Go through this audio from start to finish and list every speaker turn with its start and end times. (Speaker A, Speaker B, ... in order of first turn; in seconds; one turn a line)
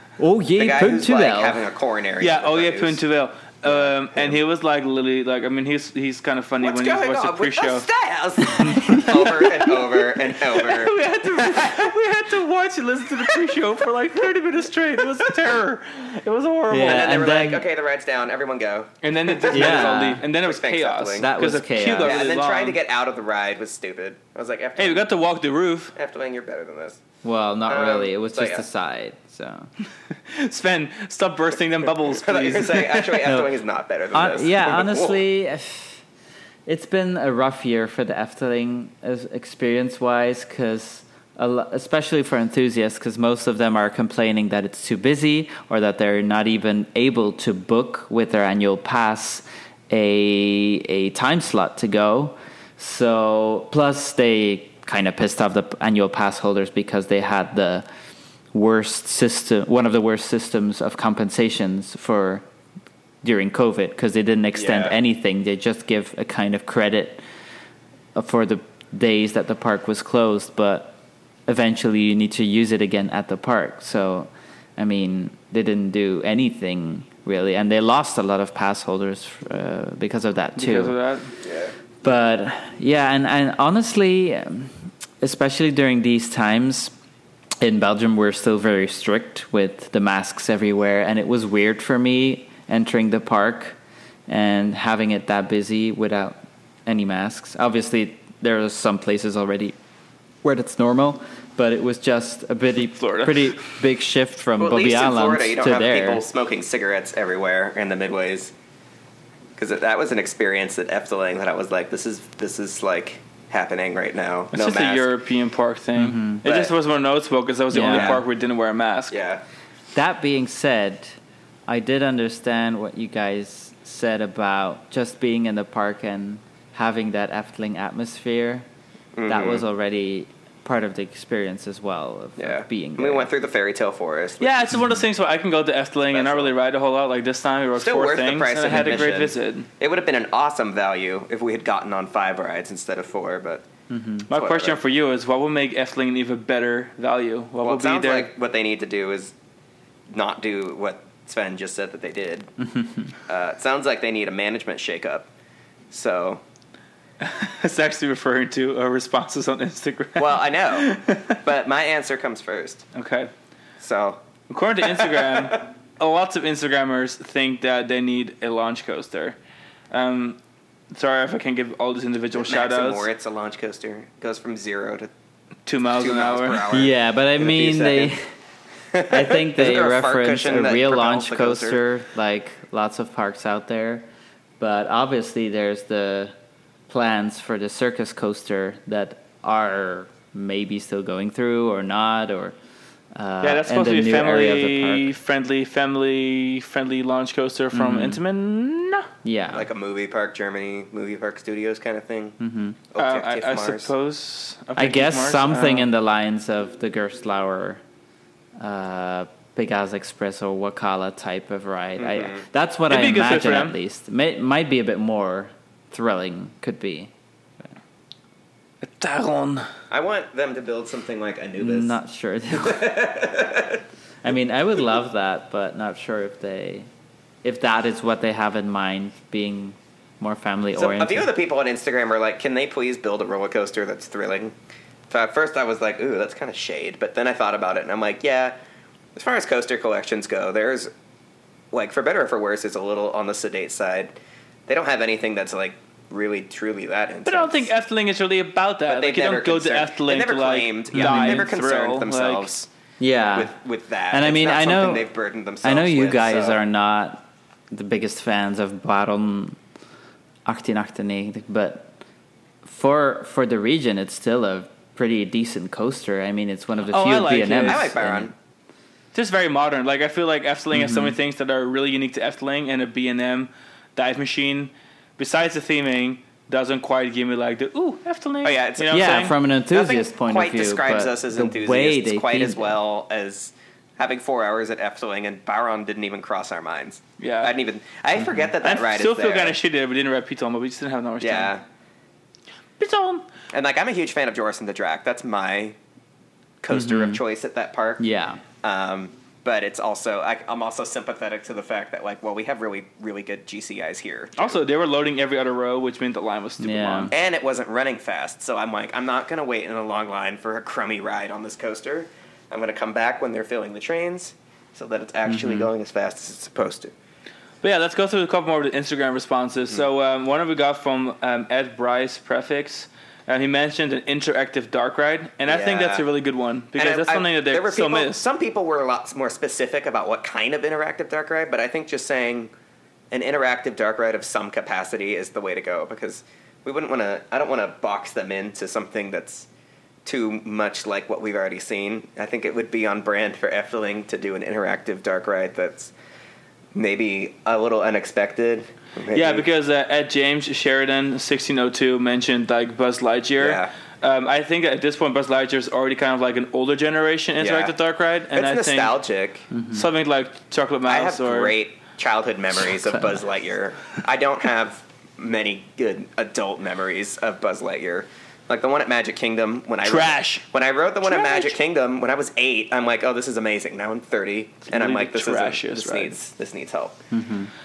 Speaker A: 0.2-1.6
Speaker B: 0.6-3.0
Speaker C: 2.2-7.9
Speaker B: 3.6-4.4
Speaker B: 6.6-11.7
Speaker C: 8.5-17.2
Speaker A: 8.6-9.1
Speaker A: 16.7-17.6
Speaker B: 16.8-21.3
Speaker C: 19.0-22.8
Speaker A: 19.5-20.2
Speaker A: 21.2-22.2
Speaker B: 22.0-25.1
Speaker C: 24.8-25.9
Speaker B: 25.9-27.0
Speaker A: 27.2-29.7
Speaker B: 27.7-28.6
Speaker C: 30.1-33.2
Speaker B: 32.0-35.2
Speaker A: 33.2-33.5
Speaker A: 34.1-36.0
Speaker A: 36.7-57.9
Speaker A: 58.5-62.4
Speaker A: 63.2-67.2
Speaker B: 64.5-65.0
Speaker A: 68.2-71.0
Speaker A: 71.5-81.0
Speaker C: 80.6-81.3
Speaker B: 81.4-81.7
Speaker A: 82.0-86.9
Speaker A: 87.6-93.8
Speaker A: 94.3-99.7
Speaker A: 100.4-106.2
Speaker C: 103.0-103.6
Speaker B: 104.6-108.5
Speaker B: 109.6-115.1
Speaker C: 114.5-119.1
Speaker A: 116.0-116.4
Speaker B: 116.4-116.7
Speaker A: 117.7-118.2
Speaker B: 117.9-118.2
Speaker B: 119.1-119.4
Speaker A: 120.0-128.6
Speaker B: 129.2-129.6
Speaker A: 129.3-133.3
Speaker B: 132.4-134.8
Speaker C: 134.4-139.7
Speaker A: 134.7-135.0
Speaker B: 136.1-136.5
Speaker B: 137.8-143.6
Speaker A: 143.9-144.3
Speaker C: 144.3-148.3
Speaker B: 144.3-144.8
Speaker B: 147.6-149.3
Speaker B: 150.1-152.5
Speaker B: 153.2-155.3
Speaker B: 155.9-156.4
Speaker C: 157.2-161.4
Speaker B: 160.2-162.9
Speaker C: 162.9-163.3
Speaker B: 163.8-164.2
Speaker C: 164.5-169.4
Speaker B: 164.8-165.6
Speaker C: 169.9-170.4
Speaker C: 170.9-173.1
Speaker B: 172.4-175.1
Speaker C: 175.7-176.7
Speaker B: 175.8-178.1
Speaker A: 176.7-178.3
Speaker B: 178.9-181.8
Speaker A: 179.1-184.1
Speaker A: 184.6-186.3
Speaker A: 186.9-192.6
Speaker A: 193.1-195.1
Speaker C: 193.4-199.1
Speaker A: 197.7-198.2
Speaker A: 199.2-199.7
Speaker B: 199.5-202.4
Speaker A: 202.4-202.8
Speaker B: 202.9-203.9
Speaker C: 203.0-205.9
Speaker A: 204.8-207.8
Speaker A: 208.6-217.1
Speaker B: 212.0-212.4
Speaker C: 212.9-213.8
Speaker C: 218.8-219.7
Speaker B: 219.9-221.9
Speaker A: 221.6-223.1
Speaker B: 222.6-223.8
Speaker A: 224.2-226.9
Speaker A: 227.4-231.3
Speaker B: 230.8-234.5
Speaker B: 235.1-238.6
Speaker B: 239.1-240.9
Speaker B: 241.7-244.1
Speaker B: 244.7-247.7
Speaker C: 247.2-252.5
Speaker B: 248.9-252.7
Speaker A: 250.9-251.4
Speaker A: 253.0-253.5
Speaker B: 253.3-256.6
Speaker A: 254.1-255.1
Speaker A: 255.6-259.6
Speaker A: 260.5-261.9
Speaker A: 262.6-268.3
Speaker C: 266.8-267.9
Speaker B: 267.6-268.3
Speaker C: 269.1-279.3
Speaker A: 270.7-271.1
Speaker B: 278.4-289.6
Speaker A: 278.9-282.8
Speaker C: 287.2-287.5
Speaker C: 288.6-291.5
Speaker B: 291.2-291.6
Speaker C: 292.8-293.3
Speaker B: 293.5-295.8
Speaker B: 296.6-298.0
Speaker A: 296.7-297.2
Speaker A: 298.0-298.4
Speaker B: 298.6-304.6
Speaker C: 304.4-307.1
Speaker A: 306.6-307.1
Speaker B: 307.1-316.9
Speaker A: 315.3-315.7
Speaker C: 317.6-328.2
Speaker B: 325.5-326.0
Speaker B: 326.8-332.5
Speaker B: 333.1-339.5
Speaker B: 340.1-345.9
Speaker B: 346.7-349.4
Speaker C: 349.1-358.9
Speaker B: 353.4-353.7
Speaker B: 357.4-357.7
Speaker B: 358.3-359.5
Speaker A: 359.5-359.9
Speaker C: 359.7-361.6
Speaker B: 360.9-377.0
Speaker C: 369.8-370.4
Speaker C: 371.0-371.6
Speaker C: 374.7-376.1
Speaker A: 377.1-377.5